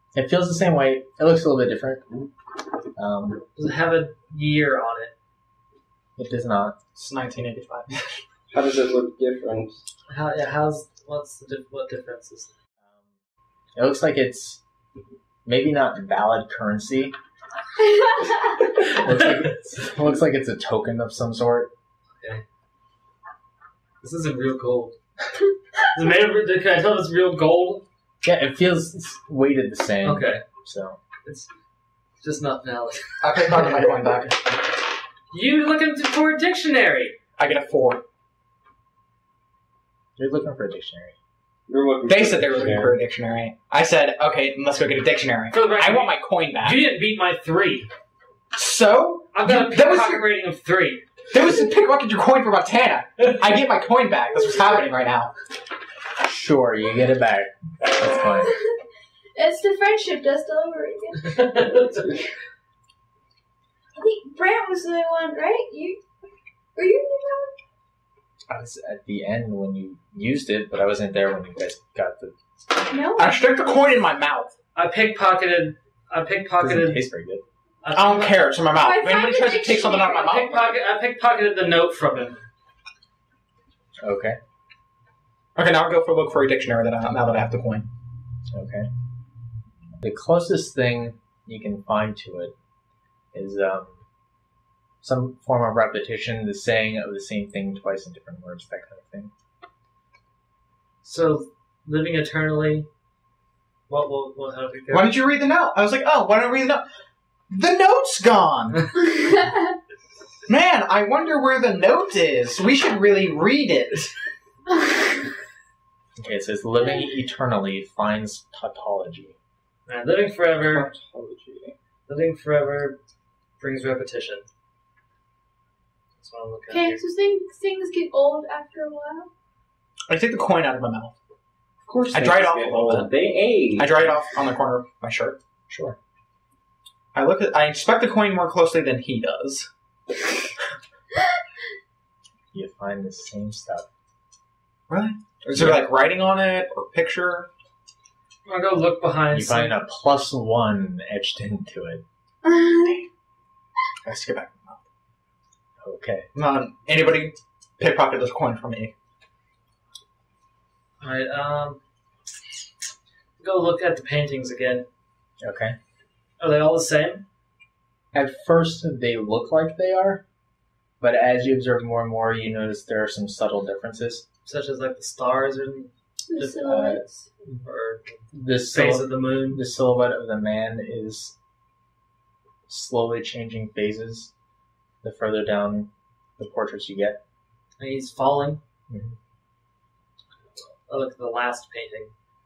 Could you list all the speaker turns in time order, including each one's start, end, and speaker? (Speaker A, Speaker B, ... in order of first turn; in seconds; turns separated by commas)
Speaker A: 0.1-2.0, Speaker A: 3.0-3.4, Speaker B: 3.5-5.1, Speaker A: 6.2-6.8, Speaker C: 6.9-8.2, Speaker D: 8.5-9.8, Speaker B: 10.1-12.5, Speaker A: 12.8-13.1, Speaker A: 13.7-14.6, Speaker A: 15.4-17.1, Speaker E: 17.8-18.3, Speaker A: 18.8-21.7, Speaker B: 24.0-24.9, Speaker B: 25.9-27.8, Speaker A: 28.2-31.0, Speaker B: 30.0-30.4, Speaker B: 32.2-33.5, Speaker C: 33.2-34.6, Speaker B: 35.3-37.2, Speaker C: 37.4-38.0, Speaker A: 40.2-41.1, Speaker D: 41.7-43.0, Speaker C: 42.1-46.8, Speaker B: 45.5-47.9, Speaker C: 48.5-50.3, Speaker B: 49.3-51.0, Speaker C: 51.3-55.3, Speaker A: 56.2-58.5, Speaker E: 59.3-61.8, Speaker B: 61.2-62.1, Speaker E: 63.9-66.0, Speaker E: 66.7-67.6, Speaker A: 68.5-72.3, Speaker E: 72.9-73.4, Speaker C: 73.1-74.5, Speaker B: 74.7-77.1, Speaker A: 76.6-77.4, Speaker B: 77.8-78.5, Speaker C: 77.9-80.7, Speaker E: 78.7-80.4, Speaker B: 80.1-82.4, Speaker A: 84.0-84.4, Speaker C: 85.5-87.9, Speaker A: 88.5-88.9, Speaker A: 90.0-92.5, Speaker A: 93.3-94.0, Speaker A: 95.0-99.3, Speaker B: 101.0-102.9, Speaker B: 103.9-105.2, Speaker C: 104.9-106.8, Speaker C: 107.5-108.9, Speaker E: 109.1-109.7, Speaker C: 110.5-114.1, Speaker A: 116.2-119.4, Speaker E: 116.8-117.0, Speaker B: 119.9-120.9, Speaker D: 120.6-121.8, Speaker B: 122.1-123.0, Speaker B: 123.6-124.5, Speaker B: 126.2-127.0, Speaker E: 126.7-129.3, Speaker C: 130.1-131.2, Speaker C: 131.9-133.1, Speaker D: 132.1-134.1, Speaker C: 133.7-135.4, Speaker A: 135.7-135.9, Speaker C: 137.1-139.7, Speaker A: 142.5-143.8, Speaker C: 144.9-147.5, Speaker A: 145.5-145.8, Speaker B: 148.4-149.8, Speaker A: 149.3-152.0, Speaker E: 152.4-153.1, Speaker C: 154.0-154.8, Speaker A: 155.8-156.3, Speaker C: 156.3-158.9, Speaker B: 161.0-161.8, Speaker B: 163.4-164.8, Speaker A: 165.4-165.8, Speaker B: 166.4-167.2, Speaker A: 168.1-170.2, Speaker A: 171.0-174.2, Speaker B: 174.4-176.9, Speaker E: 176.3-177.2, Speaker A: 176.6-177.6, Speaker B: 177.6-179.6, Speaker A: 178.3-181.3, Speaker A: 182.7-184.3, Speaker A: 185.0-187.2, Speaker B: 187.8-188.6, Speaker A: 188.9-189.2, Speaker B: 190.9-192.1